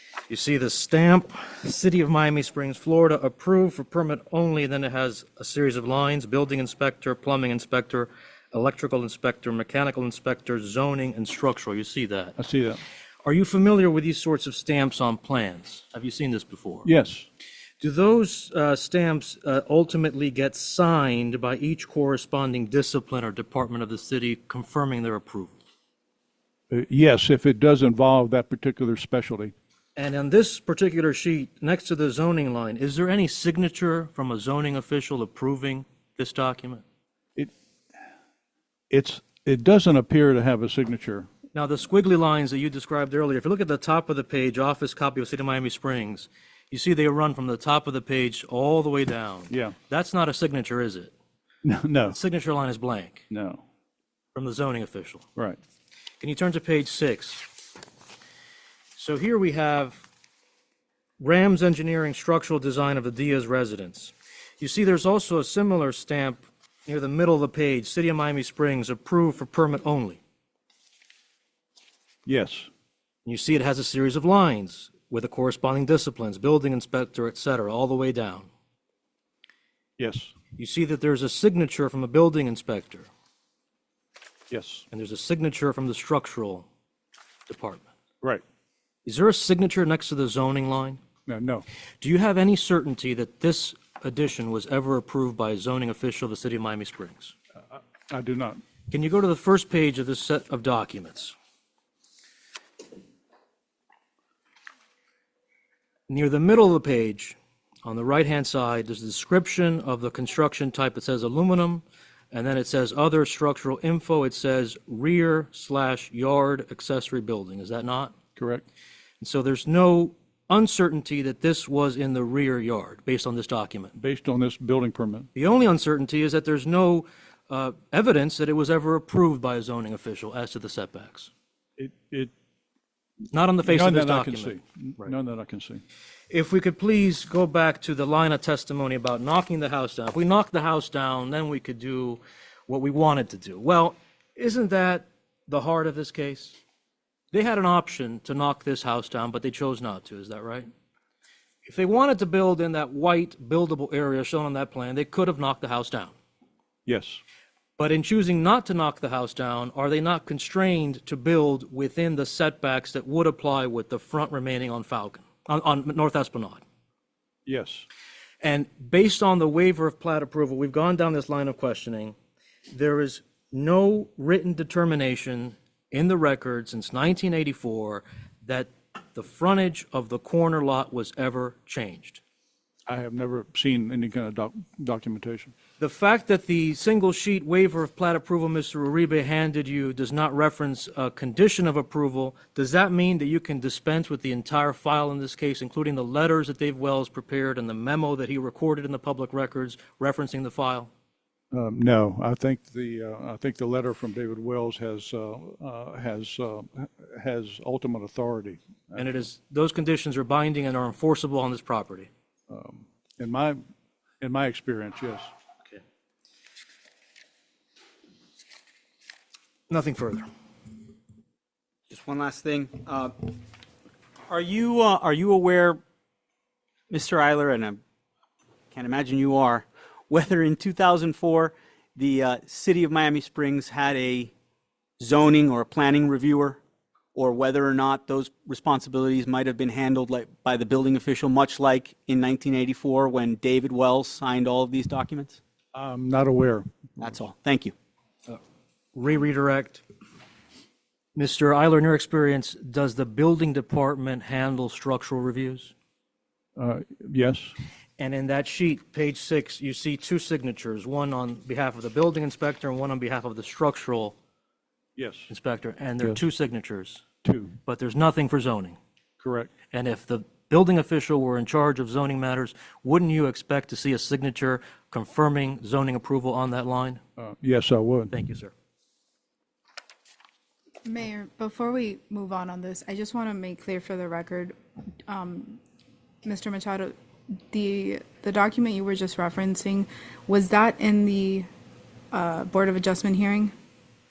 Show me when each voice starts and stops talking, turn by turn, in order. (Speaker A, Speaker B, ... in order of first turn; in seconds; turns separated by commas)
Speaker A: 0.3-12.4, Speaker B: 12.4-12.8, Speaker A: 13.2-16.9, Speaker B: 16.8-17.3, Speaker A: 17.8-25.6, Speaker B: 26.7-29.5, Speaker A: 29.9-36.8, Speaker B: 38.9-41.3, Speaker A: 41.5-51.1, Speaker B: 49.5-49.7, Speaker B: 51.6-52.2, Speaker A: 52.1-53.2, Speaker B: 53.3-53.6, Speaker A: 54.3-55.2, Speaker A: 56.2-57.5, Speaker A: 59.0-60.0, Speaker A: 61.2-70.2, Speaker B: 72.2-72.7, Speaker A: 73.2-78.5, Speaker B: 80.0-80.3, Speaker A: 80.5-83.1, Speaker B: 84.5-84.8, Speaker A: 84.9-86.7, Speaker A: 87.5-87.9, Speaker A: 89.0-91.0, Speaker B: 91.3-91.7, Speaker A: 92.0-97.3, Speaker B: 97.7-98.6, Speaker A: 98.9-101.3, Speaker A: 106.1-118.1, Speaker B: 118.4-118.6, Speaker A: 119.2-124.0, Speaker B: 124.0-125.3, Speaker A: 125.3-131.3, Speaker B: 131.8-132.3, Speaker A: 133.3-135.1, Speaker B: 133.6-135.8, Speaker A: 136.3-146.6, Speaker A: 147.3-150.7, Speaker A: 151.6-156.1, Speaker B: 156.8-157.2, Speaker A: 157.8-166.6, Speaker B: 167.4-167.8, Speaker A: 168.4-172.2, Speaker A: 172.7-182.2, Speaker B: 182.8-185.5, Speaker A: 185.8-200.9, Speaker B: 201.5-209.1, Speaker A: 208.9-212.1, Speaker B: 212.5-213.6, Speaker B: 214.2-215.3, Speaker A: 219.7-220.3, Speaker C: 221.9-223.3, Speaker C: 224.3-225.8, Speaker C: 226.9-227.8, Speaker C: 228.7-234.3, Speaker C: 235.0-236.6, Speaker C: 237.1-245.4, Speaker B: 245.7-246.7, Speaker C: 247.0-247.7, Speaker A: 248.9-249.8, Speaker A: 251.1-255.7, Speaker B: 256.6-257.5, Speaker A: 258.0-264.1, Speaker B: 264.9-265.3, Speaker A: 265.3-267.0, Speaker B: 267.2-267.5, Speaker A: 267.6-268.8, Speaker B: 269.2-269.5, Speaker A: 269.7-277.0, Speaker B: 277.2-278.1, Speaker A: 278.1-278.5, Speaker D: 280.8-284.5, Speaker D: 285.1-285.6, Speaker D: 286.2-286.9, Speaker D: 287.5-291.4, Speaker D: 292.1-293.5